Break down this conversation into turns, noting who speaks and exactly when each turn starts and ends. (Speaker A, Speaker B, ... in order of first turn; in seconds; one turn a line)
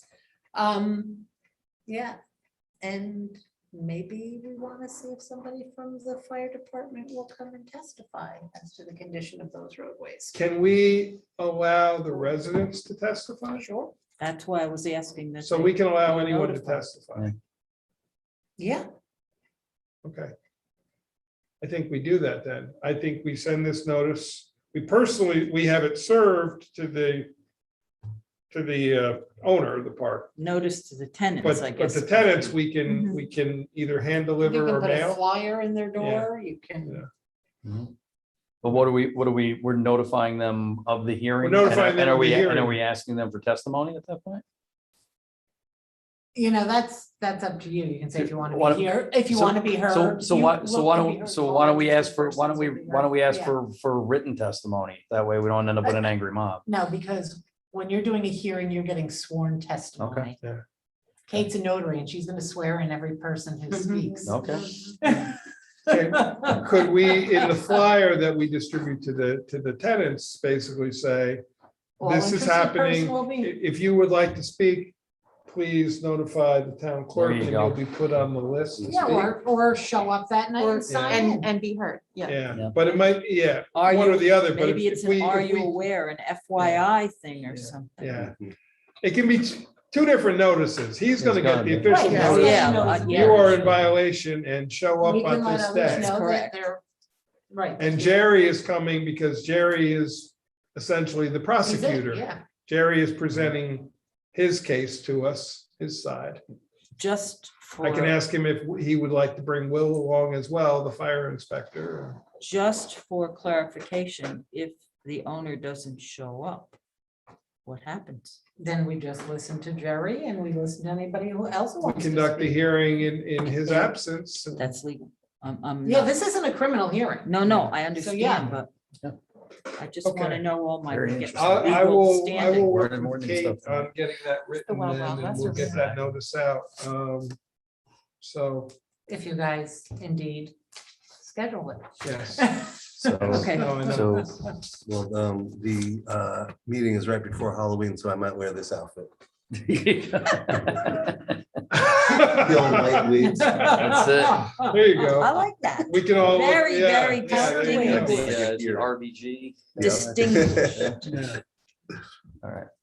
Speaker A: 0.5-1.2
Speaker A: 1.9-2.2
Speaker A: 2.8-10.3
Speaker B: 10.3-13.6
Speaker A: 13.5-13.9
Speaker C: 14.2-16.9
Speaker B: 15.4-17.3
Speaker A: 18.6-18.9
Speaker B: 20.0-20.3
Speaker B: 21.6-27.3
Speaker B: 28.5-30.3
Speaker C: 30.4-32.6
Speaker B: 31.4-35.2
Speaker A: 34.4-37.0
Speaker B: 36.0-36.3
Speaker D: 37.6-37.9
Speaker D: 38.6-44.4
Speaker B: 41.4-42.8
Speaker A: 46.3-53.6
Speaker D: 48.2-56.6
Speaker A: 56.6-60.4
Speaker D: 60.0-60.3
Speaker A: 61.3-65.3
Speaker D: 64.2-64.7
Speaker B: 65.9-71.4
Speaker A: 65.9-67.5
Speaker A: 72.0-73.5
Speaker B: 72.0-74.9
Speaker B: 75.5-79.3
Speaker D: 77.1-77.8
Speaker A: 78.8-81.5
Speaker E: 80.6-82.4
Speaker B: 80.9-81.3
Speaker B: 82.2-85.8
Speaker C: 83.7-88.2
Speaker B: 88.0-88.4
Speaker B: 89.0-96.1
Speaker D: 91.2-93.9
Speaker A: 91.8-93.6
Speaker C: 92.1-93.6
Speaker A: 95.0-96.8
Speaker C: 95.9-96.6
Speaker A: 97.5-98.3
Speaker B: 97.8-106.4
Speaker A: 101.6-102.4
Speaker C: 107.0-108.2
Speaker B: 107.8-112.2
Speaker C: 112.4-116.7
Speaker C: 117.6-118.4
Speaker A: 118.6-123.9
Speaker B: 121.8-124.7
Speaker C: 124.5-126.2
Speaker A: 125.8-127.4
Speaker C: 127.2-128.7
Speaker A: 127.9-128.6
Speaker C: 129.8-132.7
Speaker B: 130.0-130.4
Speaker D: 130.9-131.8
Speaker B: 131.3-137.3
Speaker D: 132.4-133.9
Speaker E: 134.6-135.7
Speaker D: 135.6-135.9
Speaker B: 138.2-138.7
Speaker A: 139.1-140.5
Speaker A: 141.2-144.3
Speaker B: 142.0-142.6
Speaker D: 143.0-144.3
Speaker C: 143.2-143.8
Speaker B: 143.3-144.1
Speaker F: 144.8-149.1
Speaker D: 149.5-151.4
Speaker B: 151.7-153.6
Speaker F: 152.1-153.9
Speaker A: 153.4-154.4
Speaker D: 153.7-154.5
Speaker B: 154.4-158.3
Speaker C: 155.1-158.4
Speaker F: 157.3-158.9
Speaker D: 158.0-160.9
Speaker C: 159.8-161.1
Speaker F: 159.8-160.8
Speaker B: 161.1-161.4
Speaker D: 162.4-162.7